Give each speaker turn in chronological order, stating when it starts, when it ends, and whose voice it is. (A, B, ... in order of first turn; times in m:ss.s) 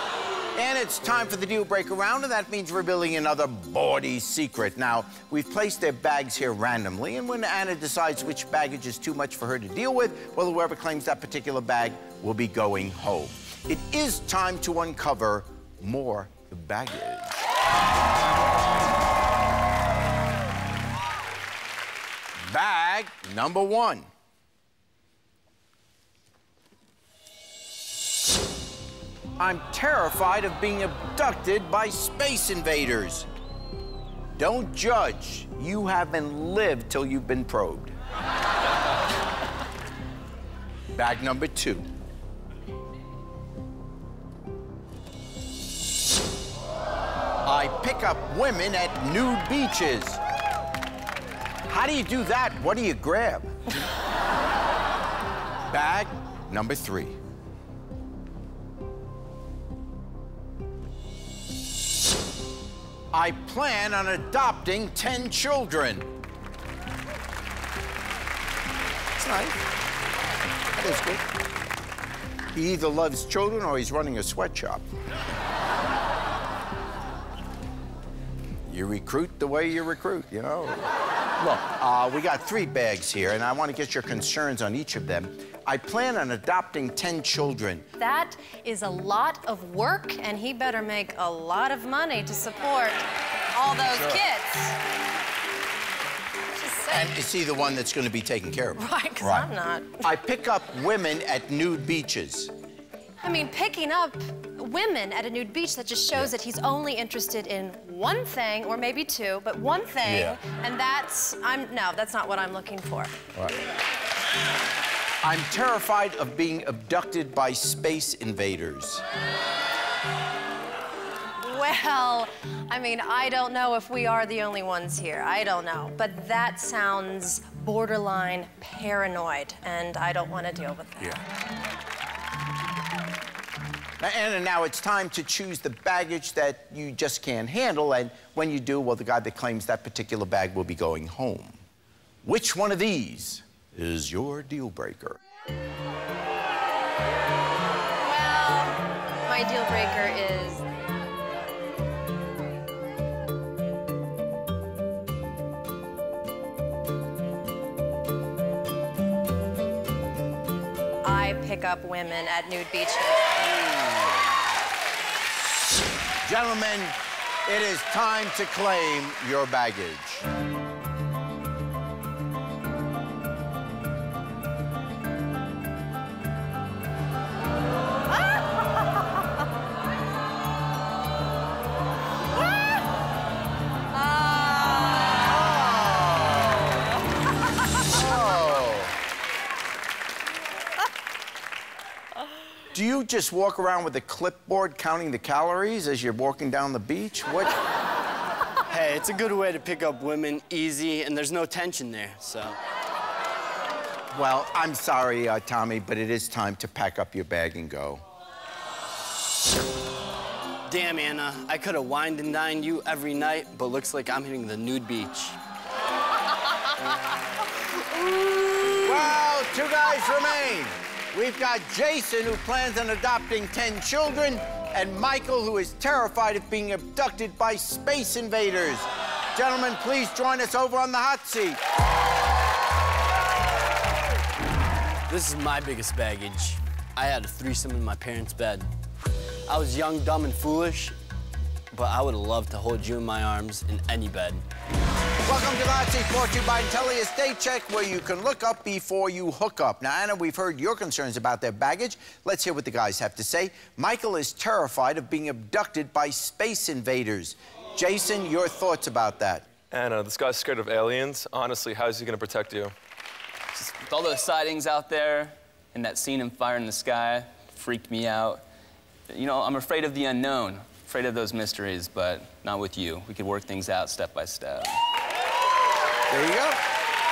0:00.6-0:17.5 A
0:22.5-0:24.0 A
0:29.4-0:33.3 A
0:34.4-0:37.9 A
0:40.9-0:41.8 A
0:47.4-0:50.2 A
0:51.7-0:53.5 A
0:55.7-0:57.1 A
1:03.1-1:06.1 A
1:09.2-1:09.6 A
1:10.7-1:11.2 A
1:12.5-1:14.8 A
1:18.7-1:27.9 A
1:28.0-1:34.8 B
1:36.5-1:37.1 B
1:36.9-1:39.5 A
1:38.8-1:40.1 B
1:40.0-1:42.5 A
1:43.2-1:53.1 B
1:50.0-1:50.4 A
1:55.2-1:59.0 A
2:01.4-2:11.2 B
2:14.0-2:21.6 A
2:22.2-2:25.2 A
2:28.0-2:30.6 B
2:41.0-2:43.4 B
2:46.2-2:50.2 A
3:05.4-3:06.6 A
3:07.9-3:08.9 A
3:12.7-3:17.6 A
3:18.7-3:22.6 C
3:24.1-3:28.0 A
3:30.7-3:35.4 C
3:38.7-3:51.6 A
3:55.1-3:58.7 C
3:59.5-4:01.0 C
4:01.7-4:04.4 C
4:05.2-4:19.4 A
4:19.7-4:22.7 D
4:23.5-4:28.4 E
4:29.1-4:34.8 E
4:36.1-4:36.6 A